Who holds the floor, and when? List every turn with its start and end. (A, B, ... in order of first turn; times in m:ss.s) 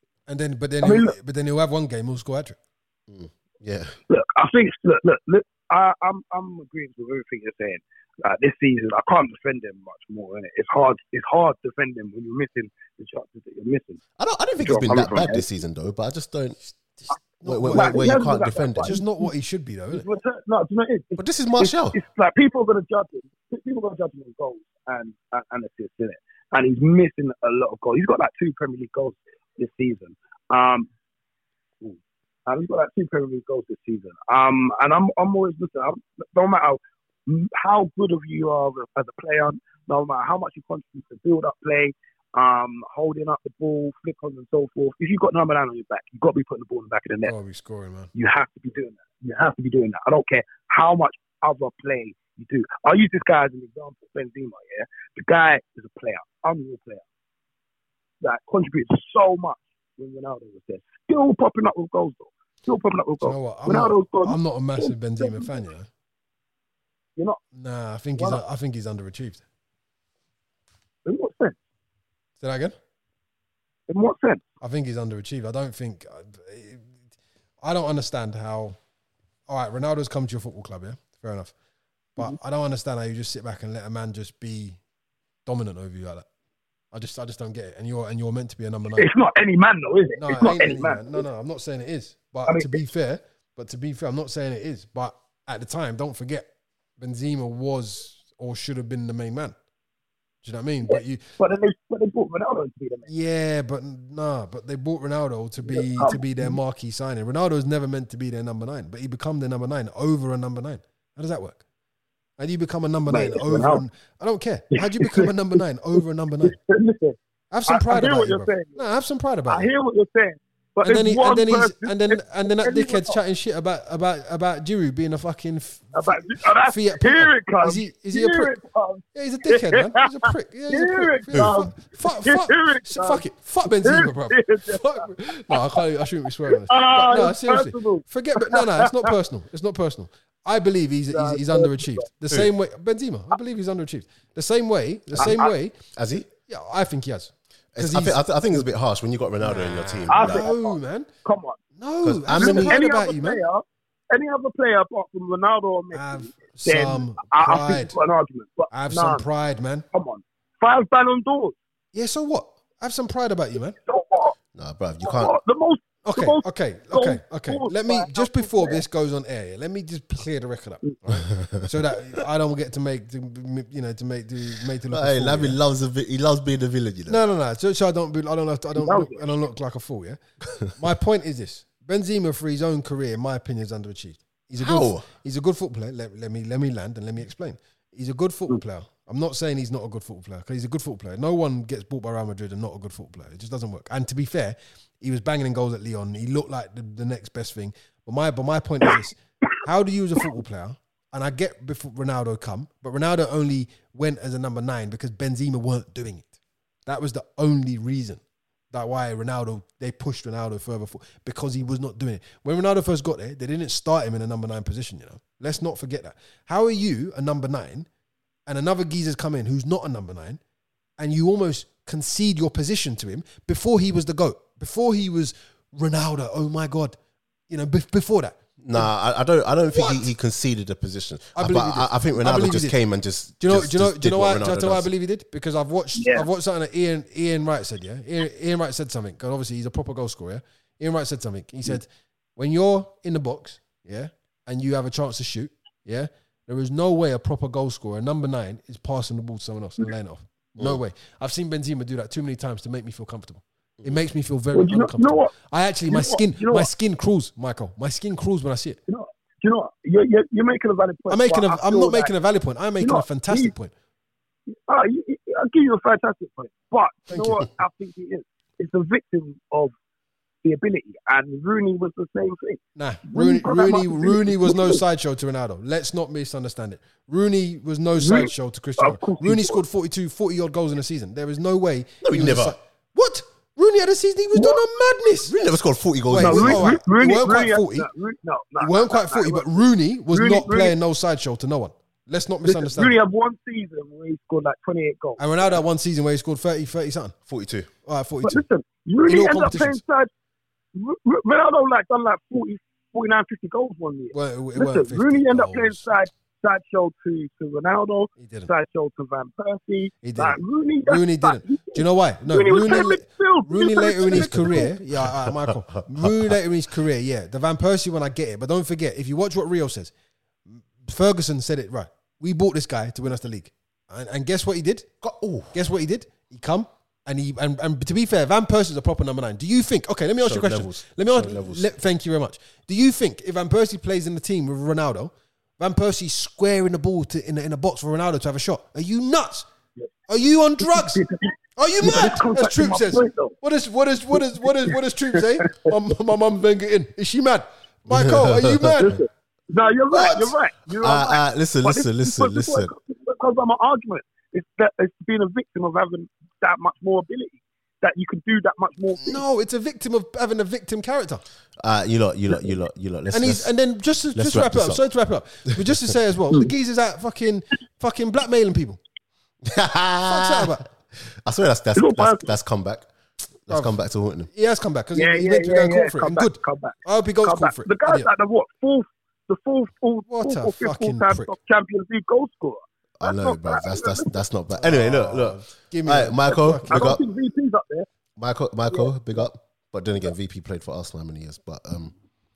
0:00.3-0:02.6 A
0:00.8-0:01.1 B
0:03.1-0:04.0 C
0:04.1-0:14.0 B
0:14.2-0:16.6 C
0:14.6-0:15.4 B
0:17.0-0:18.2 A
0:17.4-0:18.9 C
0:17.7-0:19.3 B
0:18.8-0:20.0 A
0:19.9-0:30.9 B
0:21.2-0:22.0 C
0:31.8-0:47.3 B
0:47.2-0:48.1 A
0:48.1-0:57.0 B
0:58.2-1:05.5 B
1:03.2-1:05.9 A
1:07.5-1:09.4 A
1:11.0-1:11.6 B
1:12.4-1:12.7 A
1:13.9-1:14.4 B
1:14.6-1:16.9 A
1:17.6-1:18.8 A
1:19.5-1:21.5 A
1:22.2-1:24.8 A
1:25.4-1:26.3 A
1:26.9-1:29.1 A
1:29.0-1:31.2 B
1:30.2-1:39.6 A
1:32.5-1:32.8 B
1:40.4-1:41.3 A
1:40.9-1:43.1 B
1:43.1-1:51.6 A
1:45.6-1:46.6 B
1:52.4-1:56.6 A
1:53.1-1:53.8 B
1:54.8-1:55.3 B
1:56.4-1:58.8 B
1:57.5-1:59.7 A
1:59.5-2:03.2 B
2:00.8-2:08.5 A
2:05.9-2:15.8 B
2:09.1-2:25.8 A
2:16.5-2:19.1 B
2:21.1-2:22.1 B
2:25.1-2:25.4 C
2:25.2-2:25.4 B
2:25.9-2:26.3 C
2:26.5-2:28.2 A
2:27.7-2:30.5 C
2:29.4-2:31.1 A
2:30.1-2:31.6 B
2:31.8-2:33.4 A
2:32.0-2:32.7 C
2:32.3-2:39.3 B
2:35.9-2:37.9 A
2:38.7-2:39.8 A
2:39.9-2:41.6 B
2:41.9-2:43.8 A
2:43.8-2:44.3 B
2:44.6-2:45.3 C
2:45.0-2:48.8 B
2:46.0-2:55.6 A
2:54.9-2:57.2 C
2:57.1-3:26.3 A
2:58.8-2:59.2 B
3:04.6-3:05.0 C
3:26.9-3:37.9 A
3:38.5-3:40.4 A
3:41.0-3:47.0 A
3:47.5-3:48.9 A
3:48.6-3:54.9 C
3:49.7-3:50.1 A
3:51.4-3:52.8 A
3:53.4-4:18.8 A
3:56.0-3:56.3 B
4:14.5-4:15.3 B
4:15.9-4:16.7 B
4:18.9-4:22.1 B
4:21.1-4:23.7 A
4:22.8-4:23.5 B
4:24.5-4:29.7 B
4:27.1-4:27.4 A
4:30.4-4:34.8 B
4:32.8-4:45.4 A
4:38.0-4:39.6 B
4:42.0-4:42.6 C
4:45.3-4:46.7 C
4:46.1-4:47.9 A
4:46.2-4:50.7 B
4:48.6-4:53.0 A
4:52.4-4:55.6 B
4:55.2-4:57.1 A
4:57.3-4:57.7 C
4:57.9-4:58.4 A
4:58.2-5:00.1 B
4:59.0-4:59.8 A
5:00.7-5:14.7 B
5:04.1-5:06.0 A
5:08.2-5:08.5 A
5:10.0-5:19.9 A
5:14.1-5:16.4 C
5:20.5-5:24.9 A
5:25.0-5:25.6 C
5:25.5-5:39.5 A
5:30.2-5:31.7 C
5:40.1-5:49.0 A
5:40.7-5:43.3 B
5:41.8-5:42.2 C
5:47.9-5:48.8 C
5:48.8-5:59.2 B
5:49.9-5:52.7 C
5:59.0-6:01.2 A
6:01.6-6:03.5 C
6:03.1-6:08.8 A
6:04.1-6:04.8 C
6:09.4-6:10.6 C
6:10.0-6:10.6 A
6:11.1-6:12.9 C
6:11.7-6:12.3 B
6:13.5-6:14.3 C
6:14.3-6:18.1 A
6:15.0-6:24.2 B
6:20.1-6:21.3 A
6:23.0-6:27.0 C
6:24.5-6:26.9 A
6:26.7-6:27.9 B
6:28.2-6:31.9 C